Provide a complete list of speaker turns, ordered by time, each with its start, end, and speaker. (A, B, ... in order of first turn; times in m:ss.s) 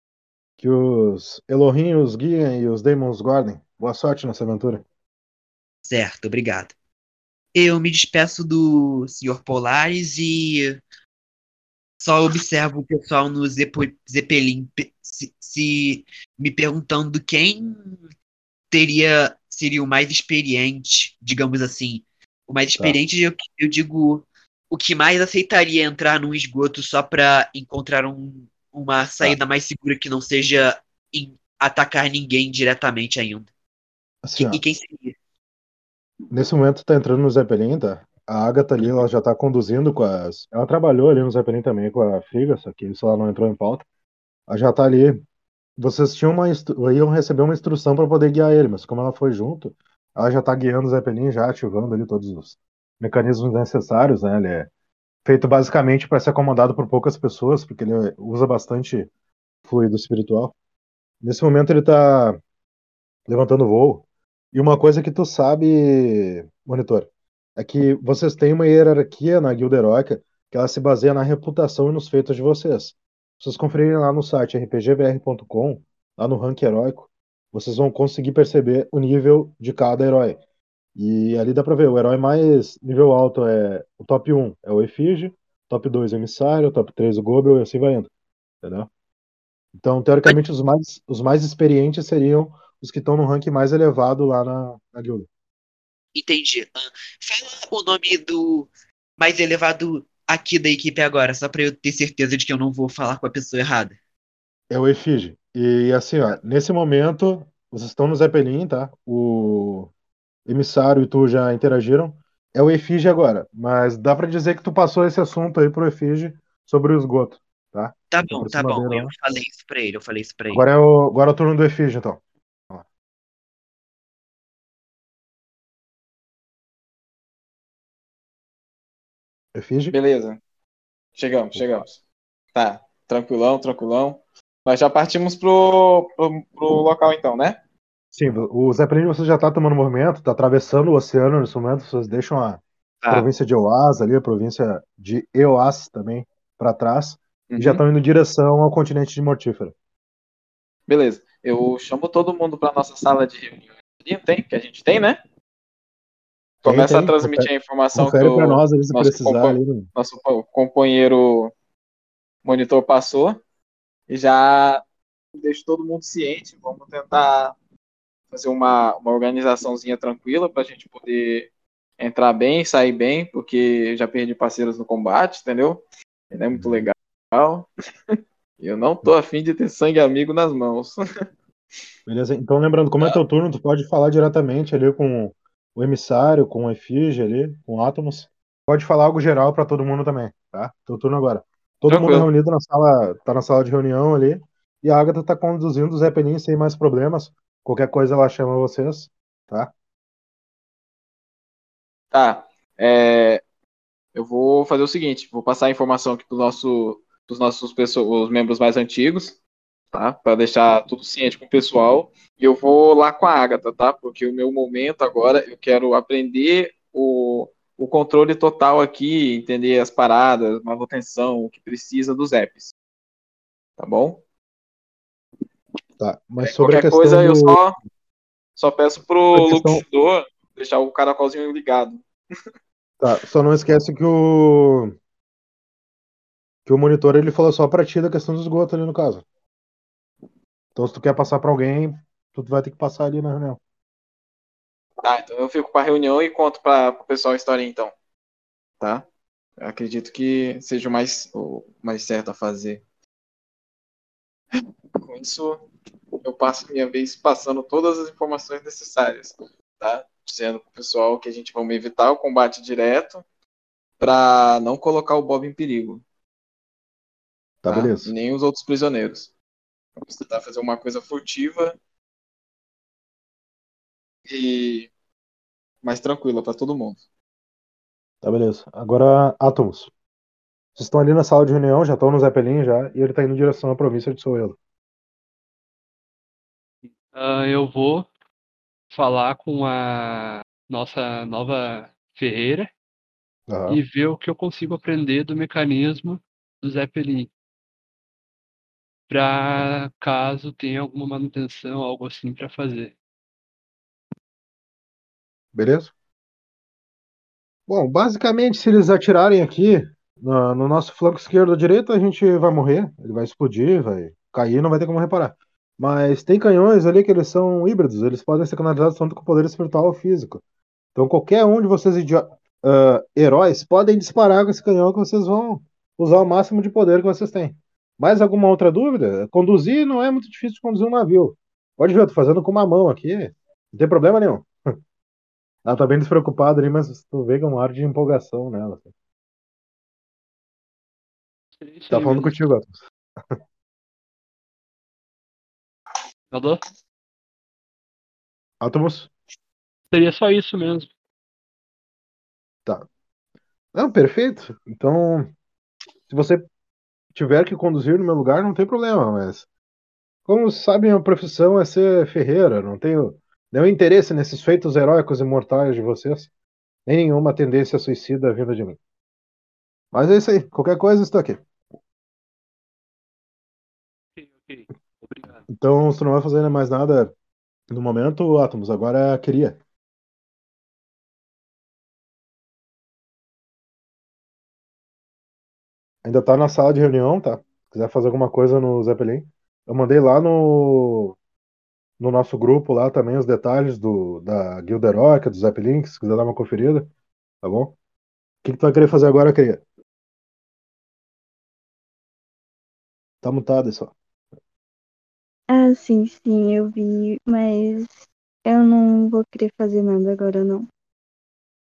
0:00.6-0:04.8 A
0:05.8-0:06.7 B
0:07.6-0:10.8 B
0:12.0-0:18.0 B
0:18.7-0:33.5 B
0:34.2-0:34.6 A
0:34.4-0:35.2 B
0:36.3-0:43.8 A
0:44.5-0:45.2 A
0:45.8-0:54.7 A
0:55.2-0:59.1 A
0:59.7-1:00.6 A
1:01.2-1:02.4 A
1:03.3-1:20.4 A
1:21.0-1:28.1 A
1:28.6-1:28.9 A
1:29.8-1:35.3 A
1:36.2-1:44.0 B
1:44.7-1:49.9 A
1:50.5-1:59.1 A
1:58.1-2:00.6 B
2:00.5-2:02.8 A
2:09.6-2:10.0 A
2:09.9-2:10.4 C
2:11.2-2:11.9 C
2:11.5-2:11.8 A
2:12.6-2:17.6 C
2:18.1-2:29.7 A
2:27.5-2:27.8 C
2:30.9-2:35.2 C
2:36.6-2:41.5 C
2:36.6-2:39.9 A
2:42.4-2:43.4 C
2:44.1-2:44.8 C
2:45.4-2:47.6 C
2:48.3-3:01.0 C
2:56.5-2:56.9 A
3:02.1-3:19.7 A
3:11.9-3:12.3 C
3:22.1-3:23.4 C
3:24.2-3:29.4 C
3:29.9-3:42.7 C
3:43.8-3:44.2 C
3:46.0-3:47.6 A
3:46.4-3:47.8 C
3:48.6-3:52.0 C
3:49.3-3:49.8 A
3:53.0-3:54.9 A
3:56.7-3:59.2 A
4:00.8-4:03.6 A
4:05.0-4:07.9 C
4:08.8-4:09.1 C
4:09.6-4:12.8 C
4:14.6-4:15.6 C
4:16.2-4:23.2 C
4:24.0-4:26.0 C
4:27.6-4:28.1 A
4:27.7-4:29.3 C
4:30.0-4:31.8 C
4:34.3-4:34.9 C
4:35.8-4:37.0 C
4:38.2-4:39.9 A
4:40.8-4:44.6 A
4:47.1-4:48.1 D
4:48.9-4:52.7 D
4:53.5-4:53.8 A
4:53.7-4:57.3 D
4:59.1-5:02.9 D
5:05.6-5:05.9 A
5:07.7-5:20.4 A
5:21.0-5:34.5 A
5:35.6-5:38.9 A
5:41.6-5:42.4 D
5:41.9-5:42.8 A
5:46.3-5:46.6 D
5:48.6-5:49.1 A
5:49.9-5:50.9 D
5:53.7-5:55.3 A
5:56.1-5:56.4 A
5:57.2-5:59.5 A
6:00.3-6:06.3 A
6:06.9-6:08.8 A
6:09.9-6:11.4 A
6:14.2-6:15.4 D
6:15.5-6:17.1 A
6:17.7-6:19.6 A
6:26.0-6:31.2 A
6:32.0-6:36.9 A
6:37.4-6:37.8 A
6:38.4-6:39.6 A
6:43.2-6:43.9 A
6:45.5-6:47.9 E
6:48.5-6:50.7 E